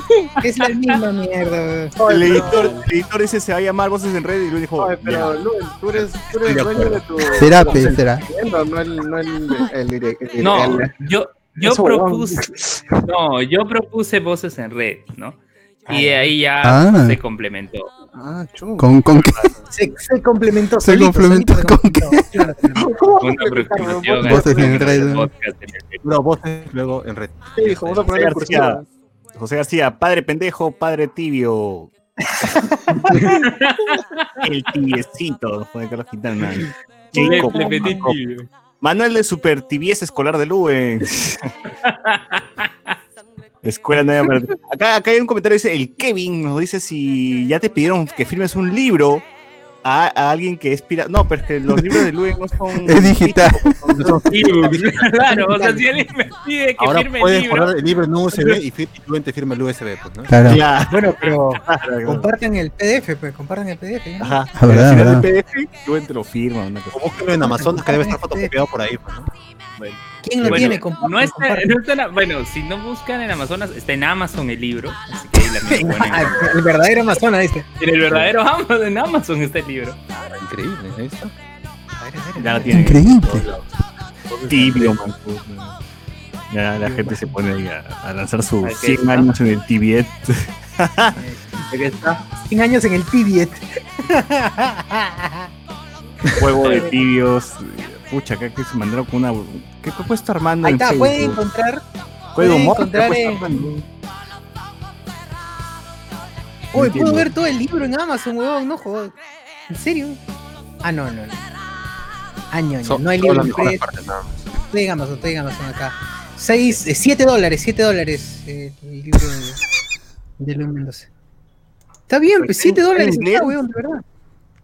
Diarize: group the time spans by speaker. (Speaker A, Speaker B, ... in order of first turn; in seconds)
Speaker A: 0.4-2.0, 15.9-16.3, 19.7-23.0, 32.5-33.3, 37.2-37.9, 55.0-55.9, 60.9-64.5, 67.4-68.5, 70.2-71.7, 75.3-77.7, 82.0-82.9, 86.8-87.3, 91.2-91.7, 92.3-95.5, 96.2-96.9, 100.6-101.8, 102.4-103.8, 106.7-109.1, 109.7-110.2, 110.8-111.4, 112.5-113.8, 114.6-119.6, 120.4-121.1, 122.1-124.0
Speaker B: 2.0-2.9, 4.8-10.9, 11.6-12.9, 18.1-18.9, 22.8-25.0, 27.6-28.8
Speaker C: 2.0-5.3, 19.2-19.6, 28.1-28.8, 29.3-31.9, 34.4-38.2, 38.8-41.5, 43.6-49.3, 49.8-53.2, 60.5-62.3, 64.2-67.2, 69.8-70.8, 82.4-83.5, 84.5-85.7, 86.5-91.2, 91.7-92.2, 96.3-101.4, 102.3-103.8, 106.7-107.3, 122.4-123.5
Speaker D: 6.6-6.9, 26.0-28.2, 53.8-55.0, 56.8-60.6, 66.9-69.3, 80.1-81.3, 83.3-83.6, 84.3-85.0, 112.8-114.3
Speaker E: 7.2-8.2, 16.6-17.2, 18.8-19.5, 20.8-22.3, 24.2-25.3, 52.8-53.8, 60.3-60.6, 64.5-65.3, 82.7-83.5
Speaker F: 10.4-12.4, 13.0-17.9, 23.2-26.0, 33.2-34.2, 37.1-38.5, 41.8-42.7, 54.0-57.8, 61.2-61.5, 70.5-76.6, 77.8-80.0, 88.6-89.3